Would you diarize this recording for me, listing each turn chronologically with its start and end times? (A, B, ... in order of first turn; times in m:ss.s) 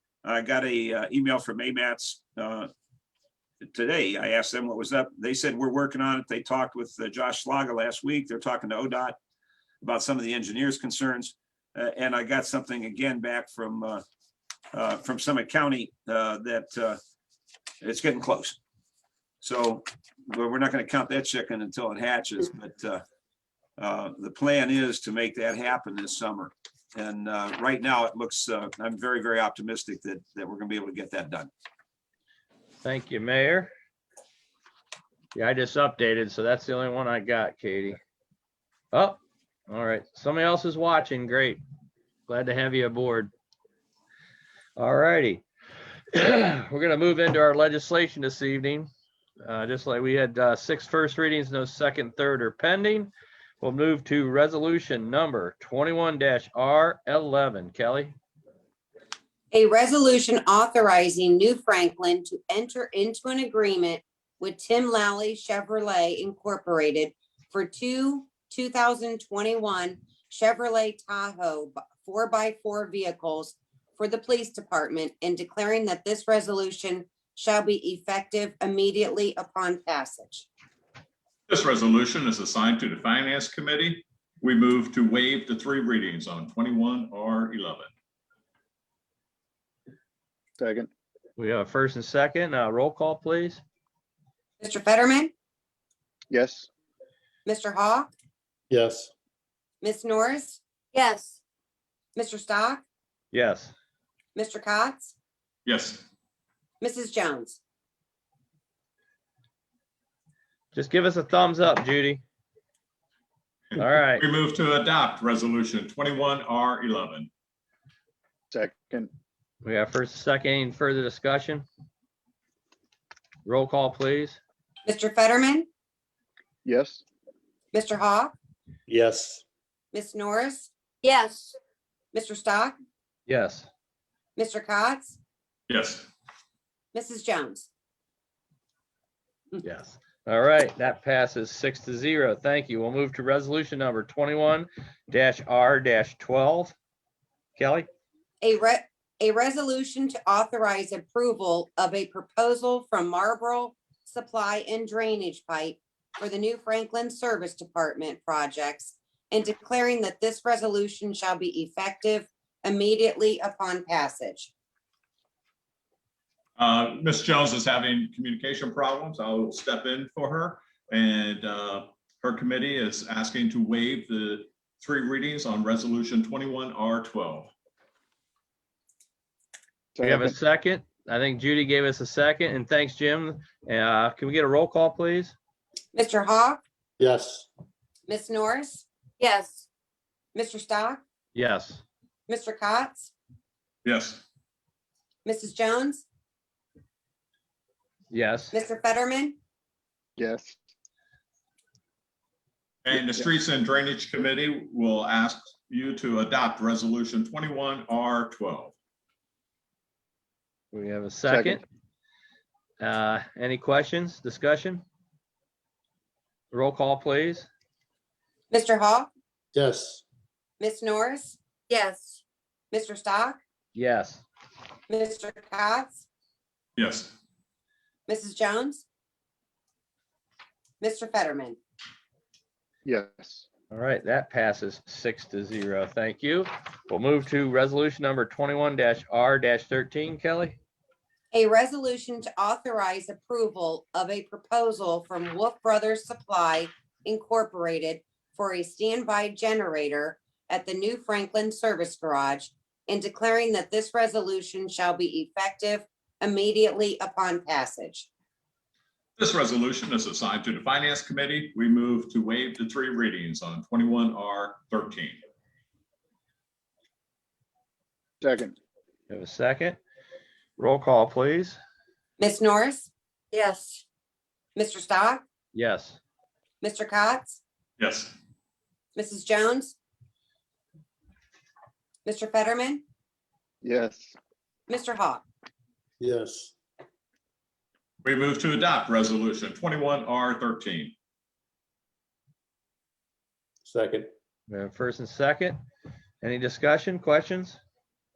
0:00.2-0:02.7 A
0:03.6-0:09.2 A
0:09.8-0:14.0 A
0:14.7-0:17.0 A
0:17.8-0:18.6 A
0:19.4-0:23.0 A
0:23.8-0:31.5 A
0:32.8-0:33.7 B
0:35.3-0:38.0 B
0:38.9-0:41.6 B
0:42.3-0:43.3 B
0:44.8-0:45.4 B
0:46.1-0:48.9 B
0:49.4-0:58.2 B
0:59.5-1:20.5 C
1:21.5-1:27.9 D
1:30.6-1:30.9 E
1:31.4-1:33.6 B
1:34.6-1:35.3 C
1:36.3-1:36.7 E
1:37.5-1:38.1 C
1:38.7-1:39.1 F
1:39.8-1:40.6 C
1:40.9-1:41.4 G
1:42.2-1:42.8 C
1:43.3-1:43.7 B
1:44.4-1:45.1 C
1:45.7-1:46.0 D
1:46.8-1:47.6 C
1:50.7-1:52.2 B
1:53.7-1:57.3 D
1:53.8-1:54.2 B
1:58.5-1:59.1 E
1:59.6-2:01.6 B
2:03.4-2:04.4 B
2:04.9-2:05.7 C
2:06.6-2:07.0 E
2:07.7-2:08.4 C
2:08.9-2:09.4 F
2:09.9-2:10.7 C
2:11.0-2:11.6 G
2:12.1-2:12.8 C
2:13.3-2:13.7 B
2:14.4-2:15.2 C
2:15.7-2:16.1 D
2:16.9-2:17.7 C
2:19.6-2:26.8 B
2:27.6-2:27.9 B
2:28.4-2:44.5 C
2:46.6-2:57.5 D
3:00.0-3:00.4 E
3:00.0-3:05.4 B
3:05.9-3:06.6 C
3:07.0-3:07.5 F
3:08.1-3:08.8 C
3:09.2-3:09.7 G
3:10.4-3:11.0 C
3:11.4-3:11.8 B
3:12.3-3:13.1 C
3:13.8-3:14.2 D
3:15.2-3:16.0 C
3:18.1-3:18.6 B
3:18.5-3:19.4 C
3:20.2-3:20.6 E
3:22.8-3:28.7 D
3:30.7-3:31.6 B
3:31.3-3:31.6 E
3:32.8-3:34.8 B
3:36.5-3:37.5 B
3:38.5-3:39.1 C
3:39.5-3:40.0 F
3:40.6-3:41.4 C
3:41.7-3:42.2 G
3:42.7-3:43.4 C
3:43.8-3:44.2 B
3:44.9-3:46.0 C
3:46.8-3:47.1 D
3:48.1-3:48.8 C
3:50.8-3:51.6 C
3:52.8-3:53.5 E
3:53.7-4:00.6 B
4:01.3-4:18.1 C
4:19.2-4:25.2 D
4:28.2-4:28.6 E
4:29.1-4:29.8 B
4:30.6-4:31.6 B
4:32.2-4:32.9 C
4:33.3-4:33.8 G
4:34.6-4:35.2 C
4:35.5-4:36.0 B
4:36.6-4:37.4 C
4:37.8-4:38.1 D
4:39.0-4:39.7 C
4:42.1-4:42.8 C
4:43.6-4:44.2 E
4:44.7-4:45.2 C
4:46.0-4:46.5 F
4:48.0-4:50.9 D
4:53.7-4:54.1 F
4:54.5-4:55.6 B
4:56.2-4:57.6 B